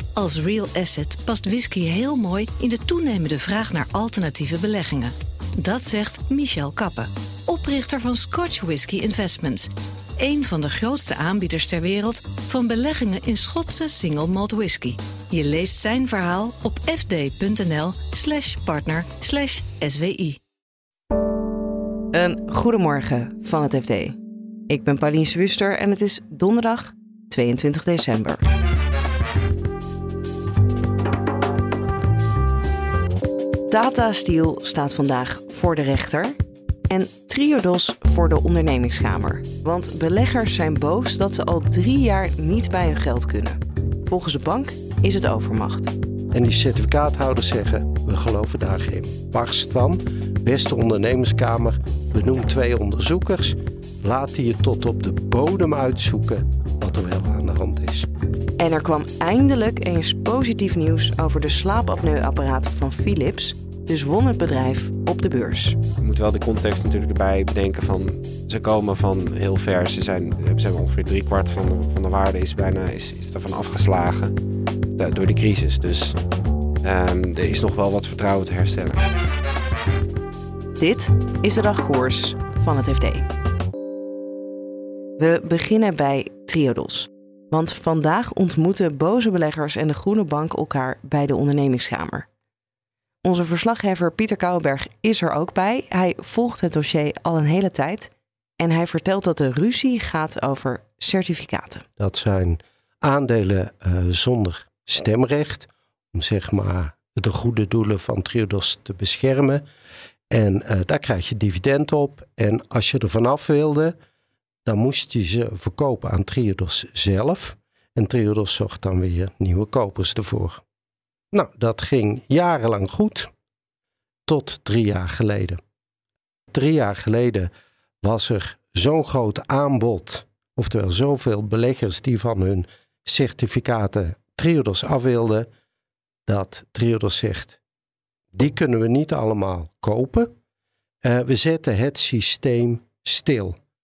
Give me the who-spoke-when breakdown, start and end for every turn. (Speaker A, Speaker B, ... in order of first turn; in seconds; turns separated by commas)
Speaker A: 0.2-20.4, Speaker B: 22.1-24.2, Speaker B: 24.7-28.4, Speaker B: 33.7-36.4, Speaker B: 36.9-45.9, Speaker C: 46.3-58.1, Speaker B: 58.6-65.8, Speaker D: 66.0-74.3, Speaker D: 75.0-76.2, Speaker D: 76.8-79.0, Speaker B: 80.8-83.2, Speaker B: 85.2-92.3, Speaker B: 93.2-101.8, Speaker C: 102.0-109.6, Speaker C: 110.3-114.0, Speaker C: 114.7-120.6, Speaker C: 121.3-123.3, Speaker C: 124.3-125.6, Speaker C: 126.5-127.5, Speaker C: 128.0-135.5, Speaker C: 136.3-137.6, Speaker C: 138.3-140.3, Speaker C: 141.0-143.6